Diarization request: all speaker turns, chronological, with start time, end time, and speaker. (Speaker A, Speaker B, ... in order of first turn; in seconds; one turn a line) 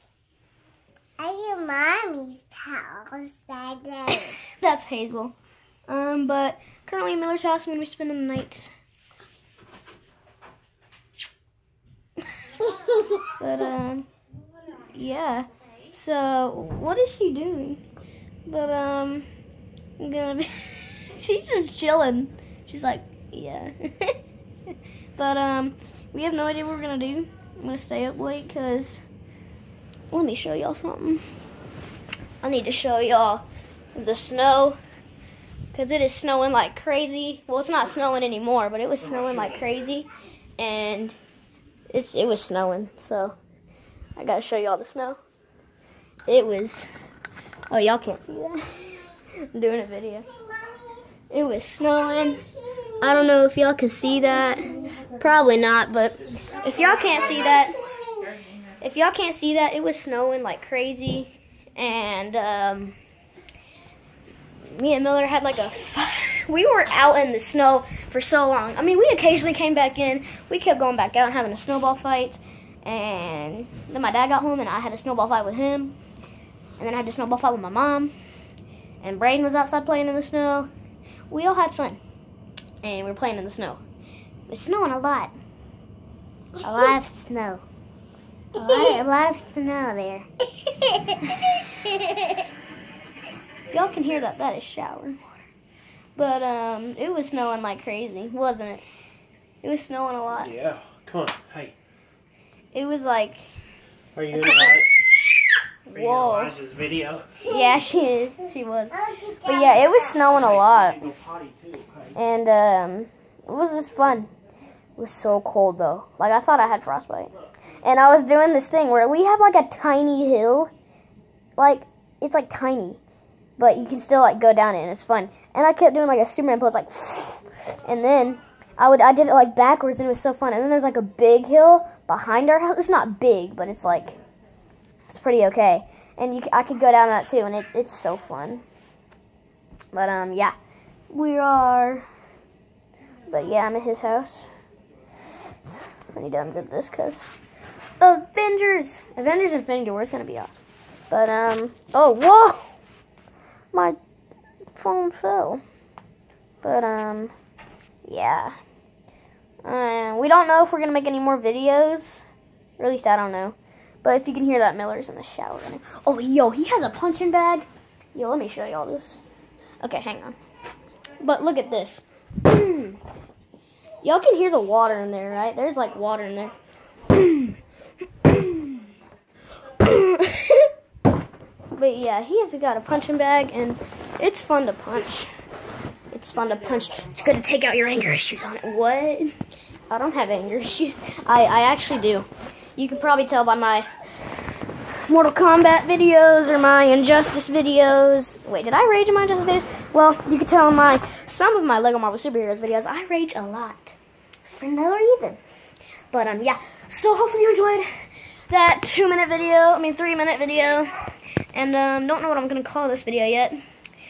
Speaker A: 1.2-4.4
Speaker B: 4.1-5.3
Speaker B: 5.9-8.7
Speaker B: 13.2-14.1
Speaker B: 14.8-17.8
Speaker B: 18.4-19.2
Speaker B: 20.0-24.2
Speaker B: 25.1-29.0
Speaker B: 30.1-31.2
Speaker B: 32.4-34.8
Speaker B: 35.7-41.2
Speaker B: 41.9-43.3
Speaker B: 44.1-45.2
Speaker B: 46.2-46.9
Speaker B: 47.7-50.2
Speaker A: 50.6-50.9
Speaker B: 51.3-52.4
Speaker A: 52.7-52.9
Speaker B: 53.0-57.9
Speaker A: 56.9-58.4
Speaker B: 58.8-63.0
Speaker B: 64.6-76.0
Speaker B: 76.8-78.1
Speaker B: 79.0-80.7
Speaker B: 81.3-82.0
Speaker B: 82.8-83.8
Speaker B: 84.5-85.3
Speaker B: 86.6-87.6
Speaker B: 88.5-90.2
Speaker A: 90.7-92.4
Speaker B: 91.3-91.6
Speaker B: 93.7-95.3
Speaker B: 96.2-98.8
Speaker B: 99.6-100.5
Speaker C: 100.4-101.7
Speaker B: 102.7-103.5
Speaker C: 104.1-104.9
Speaker B: 104.3-104.8
Speaker B: 105.8-106.6
Speaker C: 105.9-107.4
Speaker A: 107.4-107.7
Speaker B: 107.5-111.0
Speaker A: 108.9-110.3
Speaker C: 110.4-112.2
Speaker B: 112.1-114.3
Speaker B: 115.0-120.7
Speaker B: 121.6-123.0
Speaker B: 123.6-134.2
Speaker B: 135.1-138.6
Speaker B: 139.9-140.5
Speaker B: 141.1-142.1
Speaker B: 143.3-144.5
Speaker B: 146.1-147.3
Speaker B: 148.0-150.6
Speaker B: 151.1-152.7
Speaker B: 153.7-154.0
Speaker B: 154.7-155.6
Speaker B: 156.6-157.3
Speaker B: 158.0-158.6
Speaker B: 159.6-162.2
Speaker B: 162.8-169.2
Speaker B: 169.8-170.3
Speaker B: 171.2-173.0
Speaker B: 174.0-176.5
Speaker B: 177.1-177.6
Speaker B: 178.2-178.8
Speaker B: 179.7-180.7
Speaker B: 181.7-185.3
Speaker B: 186.1-189.3
Speaker B: 189.9-193.9
Speaker B: 195.0-203.9
Speaker B: 204.5-205.4
Speaker B: 206.1-210.9
Speaker B: 211.5-213.6